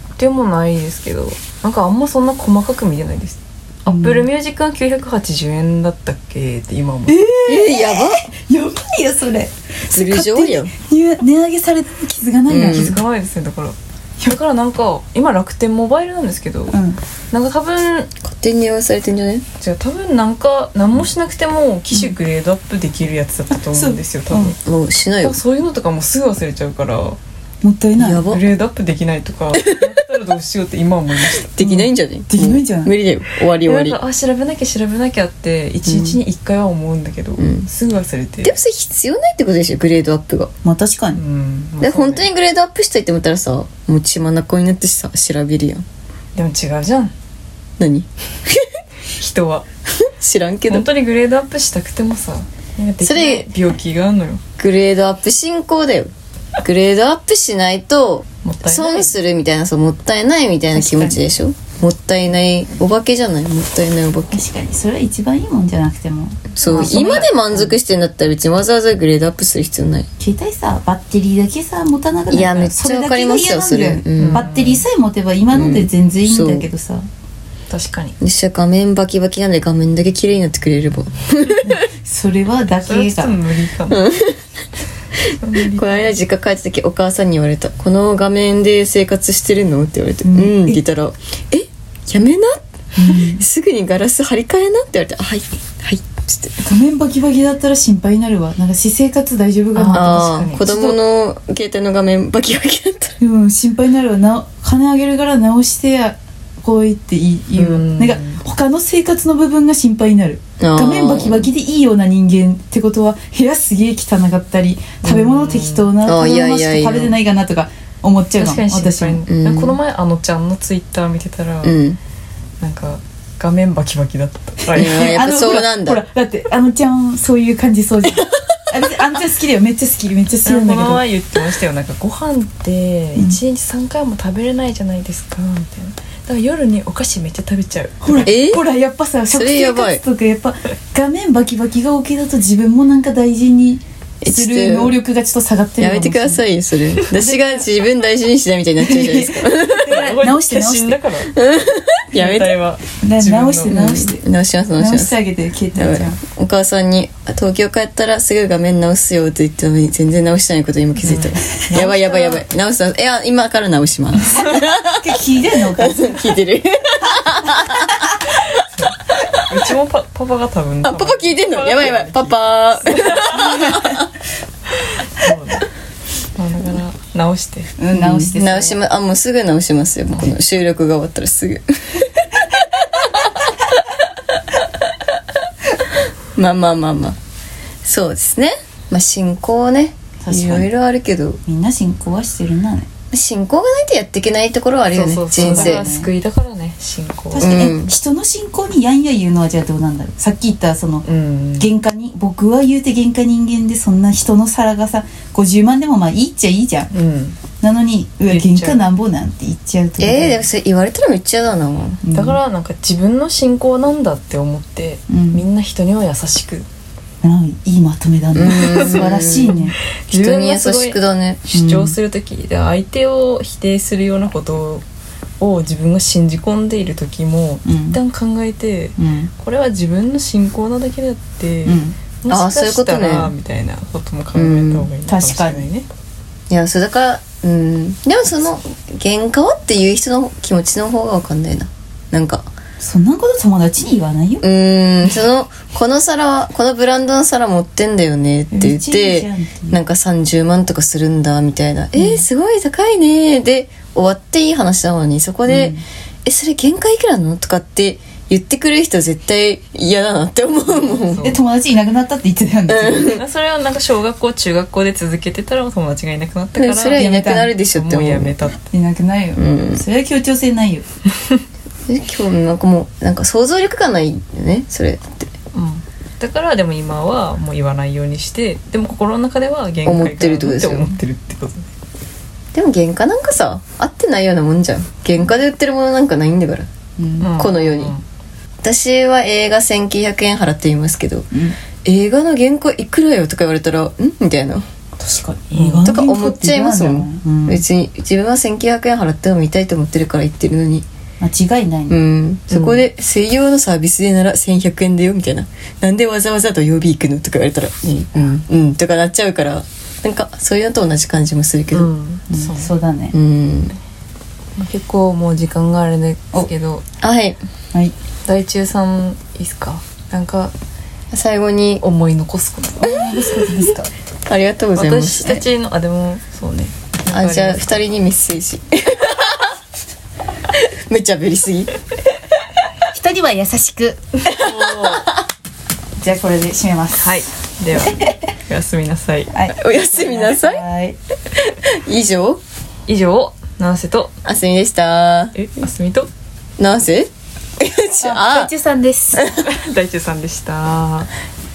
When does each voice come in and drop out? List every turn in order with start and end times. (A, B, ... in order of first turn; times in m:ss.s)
0:00.2-0:07.3 A
0:03.9-0:04.3 B
0:07.1-0:13.0 B
0:07.5-0:08.2 C
0:09.9-0:10.7 C
0:12.5-0:12.9 C
0:12.6-0:16.8 A
0:16.7-0:17.0 B
0:17.3-0:18.1 A
0:18.2-0:19.4 C
0:19.6-0:24.6 A
0:23.7-0:24.6 B
0:24.6-0:25.4 C
0:25.2-0:27.2 A
0:27.6-0:28.2 B
0:28.0-0:28.5 C
0:28.2-0:31.5 A
0:31.4-0:34.0 C
0:31.6-0:32.9 B
0:33.6-0:38.6 A
0:35.9-0:36.2 C
0:37.4-0:37.7 C
0:38.4-0:40.5 C
0:40.6-0:41.2 B
0:41.2-0:42.3 A
0:41.8-0:45.8 C
0:46.4-0:47.1 A
0:47.8-0:48.7 C
0:49.2-0:49.7 A
0:50.1-0:50.9 C
0:50.7-0:54.4 A
0:53.0-0:53.5 C
0:54.6-0:56.1 C
0:56.6-1:04.4 C
0:58.4-0:59.1 A
1:00.7-1:01.3 B
1:04.3-1:07.7 B
1:06.6-1:10.1 C
1:06.6-1:07.3 A
1:10.2-1:17.1 B
1:12.3-1:14.4 C
1:14.2-1:14.8 A
1:15.6-1:16.7 C
1:17.7-1:18.2 A
1:18.2-1:21.8 C
1:21.9-1:23.4 B
1:22.9-1:24.1 A
1:23.9-1:24.4 C
1:25.4-1:26.1 A
1:25.6-1:36.6 C
1:30.2-1:30.8 B
1:33.0-1:33.4 B
1:36.6-1:41.0 B
1:39.7-1:40.6 A
1:39.9-1:43.2 C
1:43.2-1:59.2 B
1:47.6-1:48.4 A
1:50.6-1:51.5 C
1:55.0-1:55.9 A
1:56.0-1:57.2 C
1:58.4-2:01.8 A
1:59.3-1:59.8 C
2:01.6-2:02.0 C
2:02.6-2:05.2 A
2:04.6-2:11.1 B
2:04.7-2:06.0 C
2:08.1-2:08.6 C
2:10.4-2:18.3 A
2:13.2-2:13.4 B
2:18.0-2:26.4 B
2:18.3-2:18.6 C
2:19.3-2:20.0 C
2:24.2-2:25.0 C
2:25.8-2:30.1 C
2:27.3-2:27.6 B
2:28.8-2:31.0 B
2:29.7-2:31.3 A
2:31.3-2:32.6 C
2:32.1-2:33.8 A
2:33.0-2:34.2 B
2:33.7-2:35.2 C
2:34.8-2:36.2 B
2:35.8-2:45.1 C
2:41.0-2:41.6 A
2:41.6-2:42.4 B
2:44.3-2:46.2 B
2:45.7-2:48.6 C
2:48.8-2:53.7 A
2:50.8-2:54.1 C
2:53.4-2:53.9 B
2:55.1-2:55.7 A
2:56.4-2:57.8 A
2:57.8-2:58.8 B
2:57.9-3:02.2 C
3:06.4-3:07.2 C
3:07.8-3:11.4 C
3:10.2-3:10.7 B
3:11.4-3:12.9 B
3:13.1-3:15.8 C
3:14.9-3:17.6 A
3:15.4-3:16.1 B
3:17.4-3:21.1 B
3:17.4-3:17.9 C
3:21.1-3:21.7 A
3:21.6-3:26.9 B
3:26.9-3:27.4 A
3:27.6-3:30.4 B
3:28.3-3:28.8 A
3:30.0-3:32.0 C
3:32.0-3:32.4 B
3:32.1-3:36.7 A
3:35.1-3:35.5 B
3:37.2-3:39.8 B
3:38.4-3:39.6 C
3:38.5-3:39.3 A
3:40.1-3:44.8 A
3:40.1-3:41.4 C
3:41.5-3:42.0 B
3:45.4-3:55.9 A
3:47.7-3:48.0 B
3:49.0-3:49.3 B
3:51.6-3:52.0 B
3:52.3-3:53.3 C
3:54.4-3:54.9 C
3:55.1-3:55.7 B
3:56.5-4:02.5 C
4:02.8-4:04.4 B
4:04.4-4:21.3 C
4:08.5-4:09.8 B
4:12.0-4:12.2 B
4:15.5-4:15.8 B
4:20.7-4:21.4 A
4:21.2-4:23.2 B
4:22.7-4:23.2 C
4:23.1-4:28.6 A
4:26.6-4:28.4 C
4:26.9-4:27.5 B
4:28.7-4:30.9 B
4:29.4-4:29.8 C
4:31.9-4:35.3 C
4:35.5-4:41.7 A
4:39.8-4:40.9 C
4:42.5-4:46.7 C
4:47.0-4:47.3 B
4:47.2-4:48.0 A
4:47.4-4:47.9 C
4:48.6-4:51.3 C
4:51.3-4:51.6 B
4:51.8-4:54.6 C
4:55.0-4:57.6 B
4:55.5-4:55.9 A
4:55.8-5:00.9 C
5:01.2-5:02.0 B
5:01.9-5:11.9 C
5:02.5-5:02.8 A
5:11.7-5:12.7 A
5:12.3-5:13.1 B
5:13.1-5:13.8 C
5:14.6-5:16.8 A
5:17.0-5:17.4 C
5:18.3-5:20.5 A
5:21.1-5:21.8 C
5:21.8-5:22.9 A
5:22.8-5:23.9 B
5:24.3-5:25.4 C
5:24.8-5:27.8 A
5:27.1-5:29.5 C
5:30.5-5:31.8 C
5:32.9-5:34.1 B
5:34.3-5:35.2 C
5:34.3-5:35.1 A
5:36.0-5:37.2 B
5:37.0-5:39.3 A
5:39.3-5:41.0 B
5:39.5-5:40.6 C
5:41.4-5:42.4 C
5:42.9-5:44.1 A
5:44.2-5:45.4 C
5:45.4-5:46.1 A
5:46.6-5:48.5 C
5:48.0-5:49.3 B
5:49.2-5:49.4 C
5:49.3-5:51.1 A